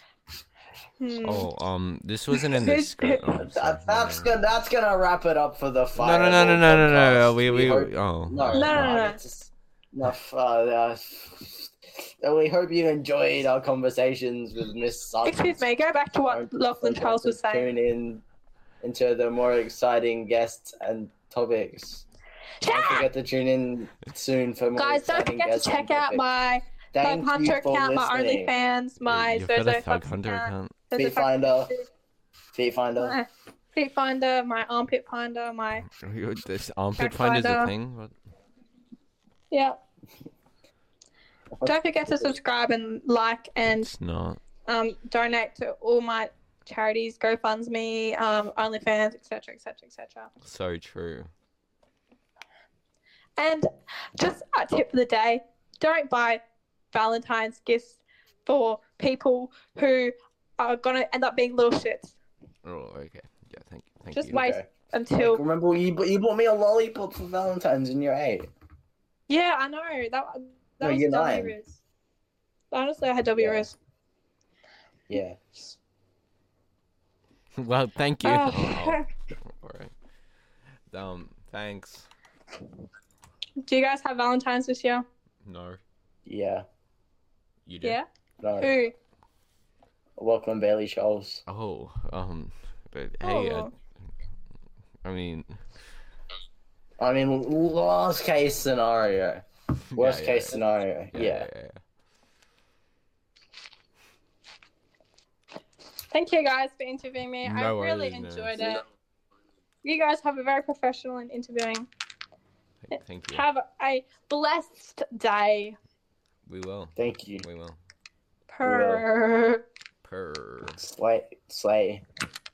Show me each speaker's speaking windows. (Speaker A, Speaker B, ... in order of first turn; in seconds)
Speaker A: 1.0-1.5, 2.3-3.2, 8.5-9.2, 15.2-17.7, 22.6-23.1, 24.8-31.8, 33.0-35.9, 37.0-37.7, 39.5-39.8, 41.6-43.9, 44.7-50.3, 53.4-56.4, 56.9-62.1, 64.1-65.4, 69.3-71.8, 72.7-73.7, 78.2-79.0, 83.6-85.0, 88.6-88.9, 93.2-93.7, 106.1-108.8, 109.8-111.9, 113.3-115.8, 118.5-119.6
Speaker B: 1.2-4.3, 6.0-9.0, 29.0-30.8, 35.9-38.1, 43.8-44.4, 50.4-51.3, 62.6-64.4, 77.6-79.9, 80.9-82.1, 85.4-85.8, 87.7-88.0, 91.5-93.7, 95.0-95.6, 99.9-100.6, 101.1-101.8, 107.4-108.6, 112.8-113.5, 116.5-117.8, 120.0-120.8
Speaker C: 3.3-15.6, 16.3-18.2, 18.8-22.0, 22.6-26.2, 26.9-28.5, 30.9-31.7, 32.5-33.2, 41.5-42.3, 64.3-68.5, 70.8-71.5, 73.3-73.7, 75.1-75.8, 86.2-86.7, 88.4-88.7, 90.2-91.4, 97.0-101.5, 117.0-117.4, 118.6-119.0, 120.8-122.0